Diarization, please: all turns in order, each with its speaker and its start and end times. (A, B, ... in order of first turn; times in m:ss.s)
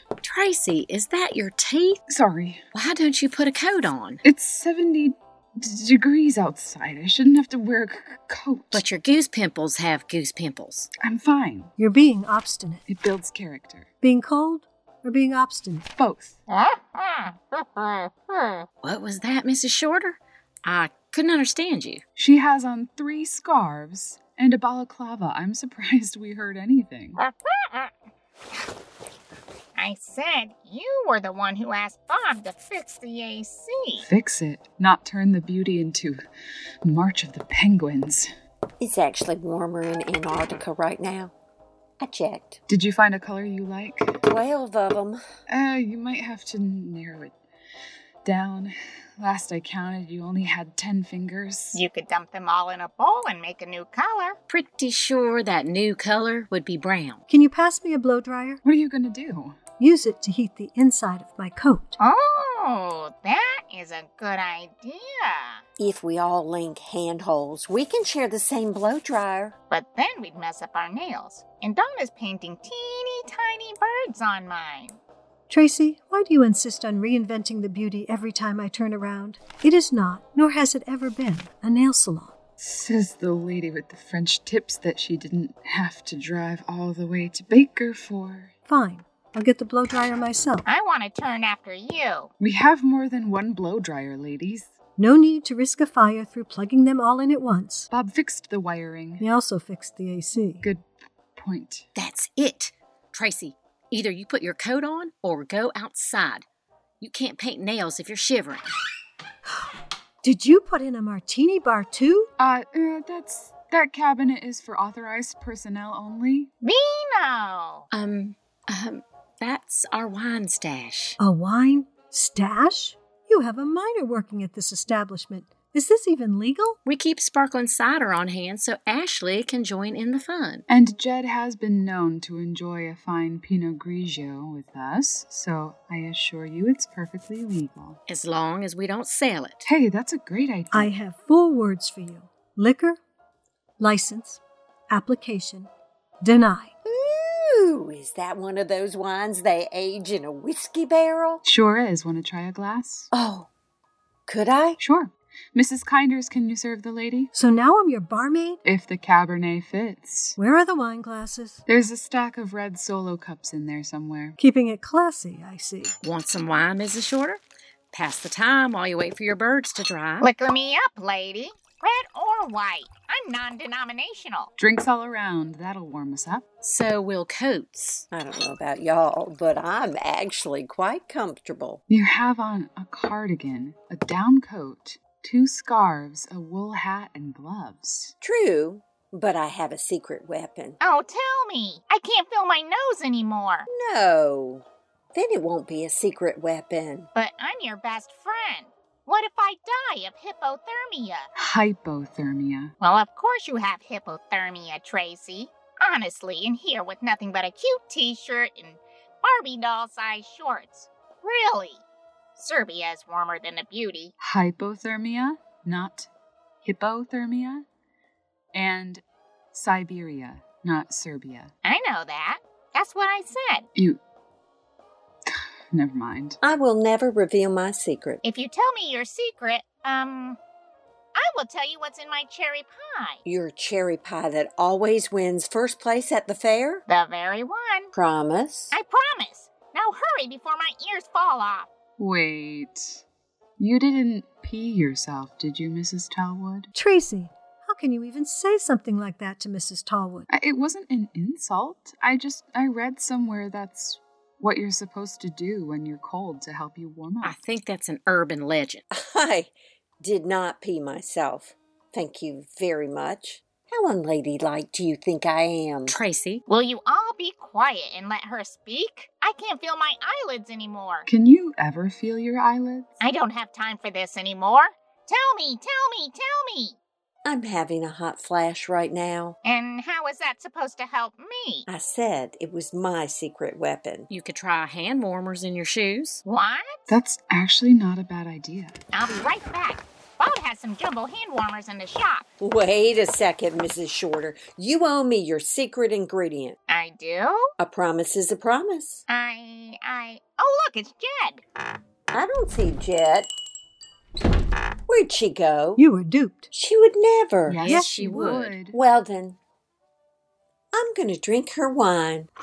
0:00.2-0:02.0 A
0:02.1-0:02.6 B
0:02.7-0:04.2 A
0:04.2-0:08.8 B
0:08.7-0:10.9 A
0:11.0-0:11.7 B
0:11.8-0:12.8 C
0:12.9-0:13.9 B
0:14.0-0:15.8 C
0:16.0-0:16.4 B
0:16.5-0:18.7 D
0:18.8-0:22.0 A
0:22.2-0:27.2 B
0:27.2-0:27.9 D
0:29.8-0:34.0 D
0:34.0-0:36.2 B
0:36.8-0:38.3 B
0:38.8-0:41.3 E
0:42.0-0:42.6 E
0:42.7-0:44.2 B
0:44.2-0:45.2 E
0:45.5-0:47.3 B
0:48.2-0:51.8 B
0:51.7-0:54.4 D
0:54.5-0:57.2 A
0:57.3-0:58.6 C
0:58.6-0:59.6 B
0:59.8-1:02.0 C
1:02.0-1:05.6 D
1:05.8-1:09.6 E
1:09.7-1:15.0 D
1:15.5-1:22.3 C
1:22.6-1:28.5 B
1:28.7-1:30.6 C
1:30.6-1:32.3 D
1:32.4-1:34.7 B
1:35.0-1:37.9 C
1:37.9-1:39.2 B
1:39.2-1:40.7 C
1:40.6-1:41.9 B
1:42.0-1:46.4 A
1:47.0-1:48.7 A
1:50.2-1:52.3 C
1:52.4-1:56.5 B
1:56.6-1:57.8 D
1:57.9-2:01.2 A
2:01.2-2:06.8 C
2:06.8-2:10.6 A
2:10.7-2:18.0 B
2:18.1-2:19.7 A
2:19.6-2:20.9 B
2:20.7-2:23.0 C
2:23.8-2:25.7 C
2:26.2-2:26.7 C
2:26.8-2:31.4 E
2:31.4-2:33.1 B
2:33.1-2:33.5 E
2:34.3-2:34.8 E
2:34.8-2:37.3 B
2:37.3-2:38.6 C
2:38.6-2:40.4 B
2:40.4-2:41.6 C
2:41.7-2:44.4 B
2:44.4-2:46.0 C
2:46.0-2:47.4 A
2:47.9-2:50.3 A
2:50.2-2:54.5 D
2:54.6-2:56.4 B
2:56.6-2:58.1 A
2:58.1-3:01.8 E
3:01.9-3:08.1 B
3:08.2-3:10.8 E
3:10.8-3:13.7 D
3:13.7-3:17.1 E
3:17.1-3:21.3 D
3:21.4-3:22.7 B
3:22.8-3:31.8 D
3:32.4-3:34.1 D
3:34.2-3:36.1 B
3:36.6-3:37.6 B
3:38.5-3:41.5 B
3:41.6-3:43.7 D
3:45.3-3:46.4 B
3:46.4-3:48.2 E
3:48.2-3:50.4 D
3:51.1-3:53.2 D
3:53.2-3:56.8 E
3:56.9-3:57.9 D
3:57.9-3:58.7 E
3:58.7-4:01.7 D
4:02.0-4:03.0 B
4:03.6-4:06.7 B
4:06.7-4:10.3 C
4:10.3-4:17.4 B
4:17.2-4:18.8 A
4:18.9-4:26.0 E
4:25.9-4:26.4 A
4:26.5-4:31.1 D
4:31.1-4:33.0 B
4:33.0-4:36.8 D
4:37.2-4:39.4 E
4:39.4-4:41.7 D
4:41.7-4:44.1 E
4:44.1-4:46.2 A
4:46.2-4:46.9 D
4:46.9-4:48.7 B
4:48.9-4:52.2 D
4:52.4-4:56.6 E
4:56.7-4:57.5 D
4:57.6-4:59.0 E
4:59.1-5:01.4 D
5:02.1-5:03.3 E
5:04.9-5:05.8 E
5:05.8-5:06.5 C
5:06.5-5:09.4 E
5:07.5-5:08.8 B
5:07.6-5:08.6 A
5:10.7-5:12.3 E